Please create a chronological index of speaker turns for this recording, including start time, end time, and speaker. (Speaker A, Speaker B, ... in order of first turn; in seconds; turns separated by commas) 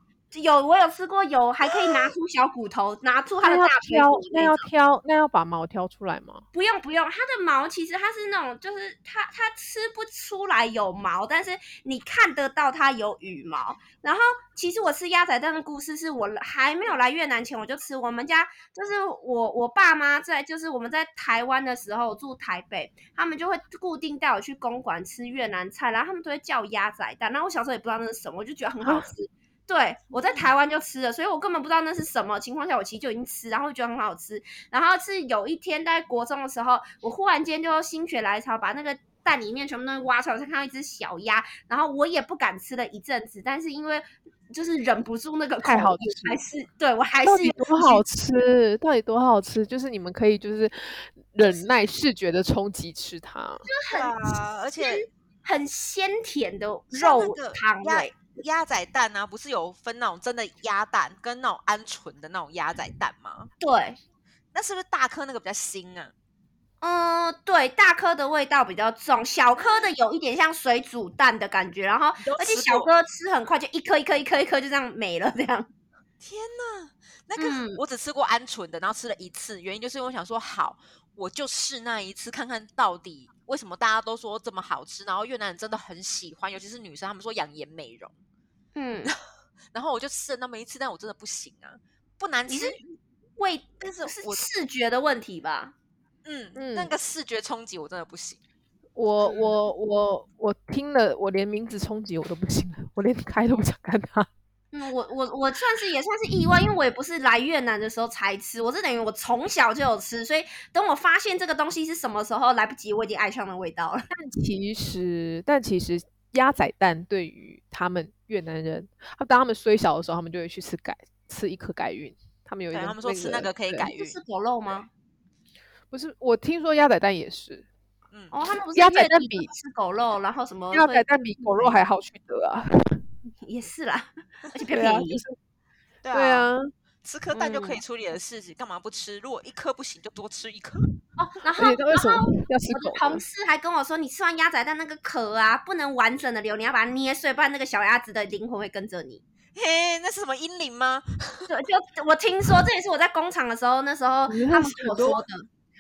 Speaker A: 0.3-4.7, Speaker B: 3.4-6.4, Speaker A: 6.5-48.0, Speaker B: 45.6-46.4, Speaker B: 47.2-53.7, Speaker A: 53.7-58.1, Speaker C: 53.9-55.0, Speaker C: 56.9-63.5, Speaker A: 63.6-64.0, Speaker C: 64.5-66.1, Speaker A: 66.8-75.7, Speaker C: 69.6-69.9, Speaker C: 72.2-72.9, Speaker C: 76.2-88.2, Speaker A: 77.4-77.8, Speaker A: 88.8-89.1, Speaker C: 89.7-92.8, Speaker A: 92.5-95.7, Speaker C: 93.8-94.4, Speaker C: 96.2-98.4, Speaker B: 96.5-96.9, Speaker B: 99.0-104.3, Speaker A: 104.7-114.1, Speaker B: 114.1-123.9, Speaker C: 122.7-124.2, Speaker A: 123.9-124.9, Speaker B: 125.9-127.7, Speaker A: 128.3-131.8, Speaker B: 128.8-129.5, Speaker B: 130.7-133.0, Speaker A: 133.4-135.2, Speaker B: 134.7-135.4, Speaker C: 136.0-136.5, Speaker B: 136.1-136.7, Speaker C: 137.0-140.9, Speaker A: 137.3-137.8, Speaker A: 141.2-149.2, Speaker B: 141.6-143.2, Speaker C: 149.6-151.5, Speaker A: 151.5-155.5, Speaker B: 154.3-155.2